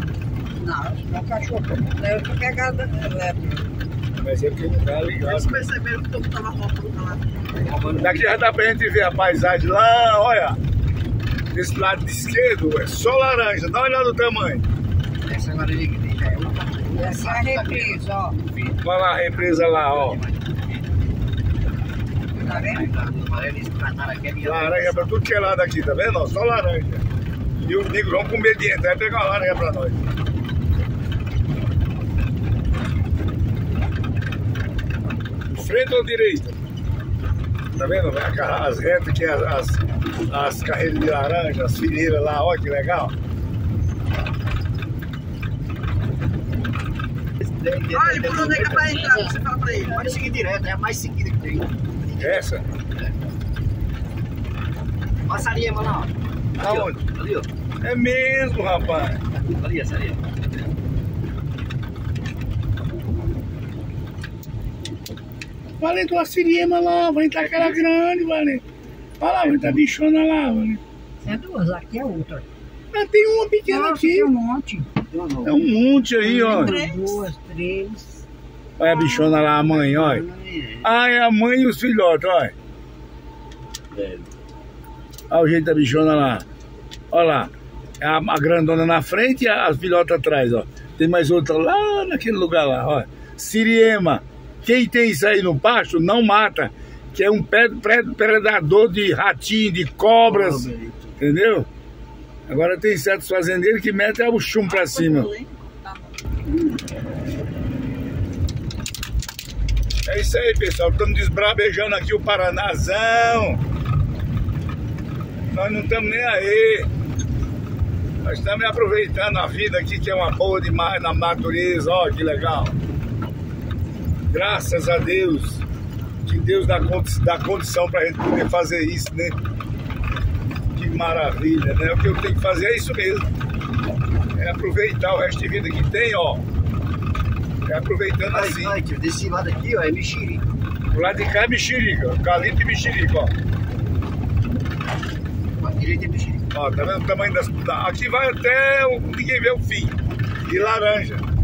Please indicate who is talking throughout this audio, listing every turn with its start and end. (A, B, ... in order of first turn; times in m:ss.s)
0:00.6-0:03.8 A
0:04.2-0:05.6 B
0:05.2-0:07.2 C
0:07.6-0:08.3 D
0:08.0-0:10.6 B
0:11.5-0:14.7 B
0:15.2-0:20.8 D
0:16.9-0:18.4 A
0:18.8-0:20.2 B
0:22.4-0:25.2 D
0:22.4-0:22.9 A
0:24.4-0:27.0 B
0:27.6-0:30.0 B
0:35.5-0:36.5 B
0:37.8-0:43.1 B
0:47.4-0:53.1 D
0:47.9-0:50.0 C
0:52.2-0:52.6 B
0:55.2-0:57.5 D
0:56.6-0:57.0 B
0:57.8-0:59.2 B
0:59.4-1:00.4 D
1:05.8-1:08.6 B
1:07.4-1:07.8 D
1:09.2-1:10.8 B
1:11.2-1:12.4 A
1:12.9-1:14.3 B
1:13.6-1:14.9 A
1:15.1-1:15.7 D
1:15.4-1:16.8 B
1:16.2-1:18.2 A
1:16.4-1:17.0 C
1:18.8-1:20.2 B
1:19.4-1:20.9 D
1:20.8-1:22.5 B
1:23.9-1:24.3 D
1:25.3-1:26.4 B
1:27.1-1:41.7 B
1:40.2-1:41.1 D
1:42.5-1:45.3 B
1:44.6-1:46.1 C
1:50.0-1:53.6 B
1:55.5-1:56.9 B
1:58.2-2:02.8 B
2:04.3-2:05.6 B
2:06.2-2:09.4 B
2:10.7-2:13.2 B
2:14.3-2:16.4 B
2:17.6-2:18.7 B
2:18.3-2:20.4 D
2:20.9-2:23.3 B
2:25.6-2:26.4 D
2:26.5-2:31.2 B